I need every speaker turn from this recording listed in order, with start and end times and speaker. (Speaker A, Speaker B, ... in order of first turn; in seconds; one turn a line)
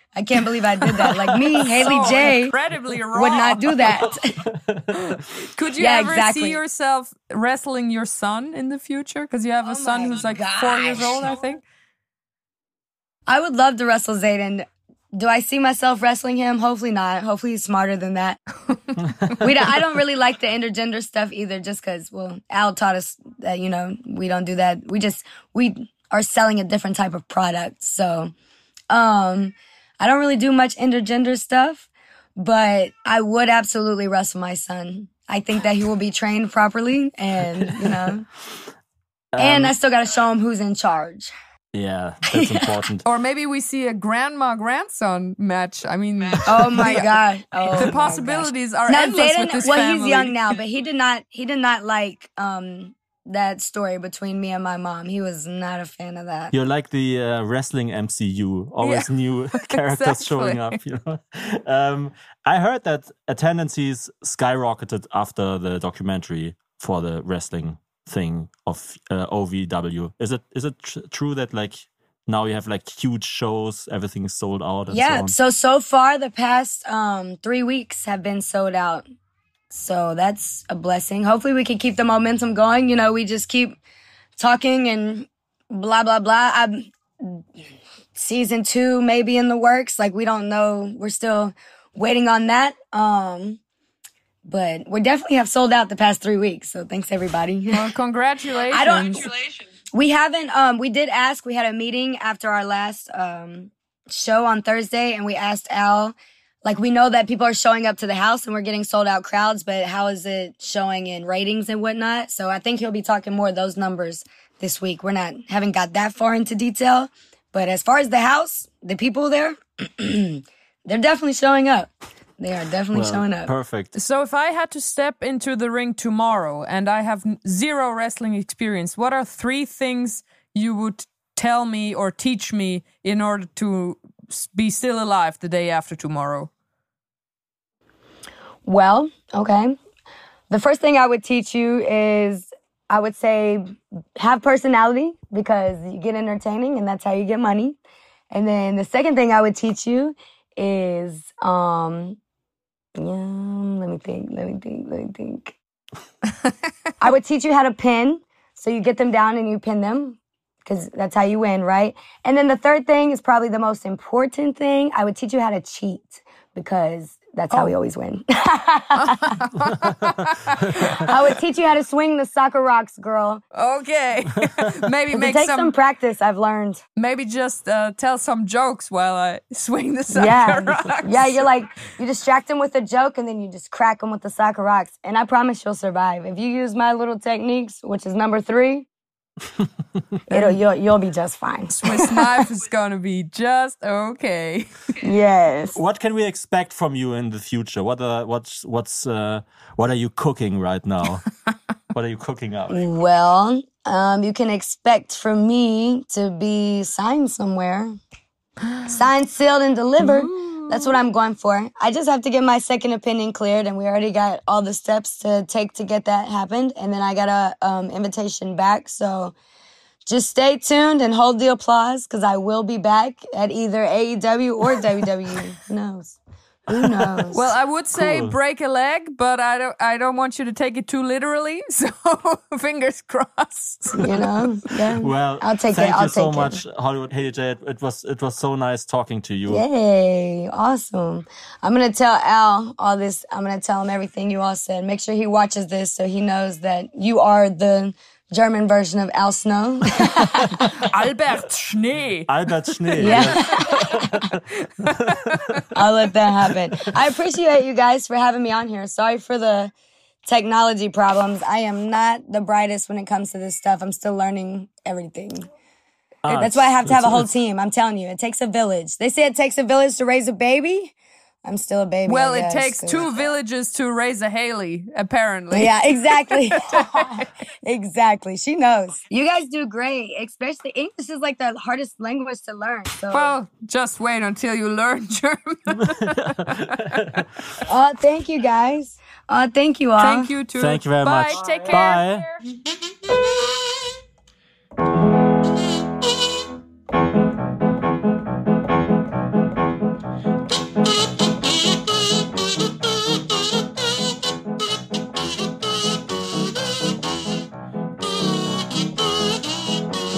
Speaker A: 0.1-2.5
Speaker B: 1.0-2.0
Speaker C: 1.8-4.1
Speaker A: 3.1-4.4
Speaker B: 4.5-4.9
Speaker C: 4.9-11.6
Speaker A: 5.8-6.6
Speaker A: 9.6-11.3
Speaker A: 13.3-18.4
Speaker C: 18.9-19.3
Speaker A: 19.4-28.3
Speaker A: 28.9-38.3
Speaker B: 39.3-39.7
Speaker A: 39.4-41.3
Speaker B: 41.7-43.0
Speaker A: 42.3-42.7
Speaker C: 43.0-47.1
Speaker A: 46.5-56.5
Speaker C: 47.7-50.5
Speaker B: 56.5-75.3
Speaker C: 58.8-60.8
Speaker A: 74.9-79.0
Speaker A: 79.7-83.8
Speaker A: 84.4-87.6
Speaker A: 88.2-93.6
Speaker A: 94.5-97.9
Speaker C: 97.7-99.3
Speaker A: 98.7-123.5
Speaker B: 122.9-123.9
Speaker C: 123.9-136.5
Speaker A: 138.7-139.8
Speaker A: 140.5-147.8
Speaker A: 148.3-152.2
Speaker A: 153.0-155.6
Speaker A: 157.0-169.4
Speaker C: 169.0-171.1
Speaker A: 171.0-173.4
Speaker C: 173.6-175.7
Speaker A: 175.1-176.8
Speaker C: 177.0-181.5
Speaker A: 180.1-188.9
Speaker C: 190.3-190.6
Speaker A: 190.3-192.3
Speaker C: 191.8-194.7
Speaker A: 195.0-195.8
Speaker B: 195.8-201.3
Speaker B: 201.9-202.8
Speaker A: 202.7-208.0
Speaker A: 208.8-219.3
Speaker C: 210.0-210.8
Speaker A: 220.1-226.2
Speaker A: 226.7-227.4
Speaker B: 226.8-228.4
Speaker C: 227.3-234.1
Speaker A: 234.0-236.6
Speaker B: 235.0-239.7
Speaker A: 239.5-250.7
Speaker C: 250.6-255.7
Speaker B: 252.3-254.4
Speaker A: 253.0-253.9
Speaker A: 255.8-259.7
Speaker A: 260.3-265.5
Speaker B: 266.2-267.3
Speaker A: 266.3-273.3
Speaker C: 272.1-277.3
Speaker A: 275.5-283.3
Speaker C: 283.1-287.1
Speaker B: 286.5-287.2
Speaker A: 287.6-290.3
Speaker C: 290.0-292.2
Speaker B: 290.6-292.2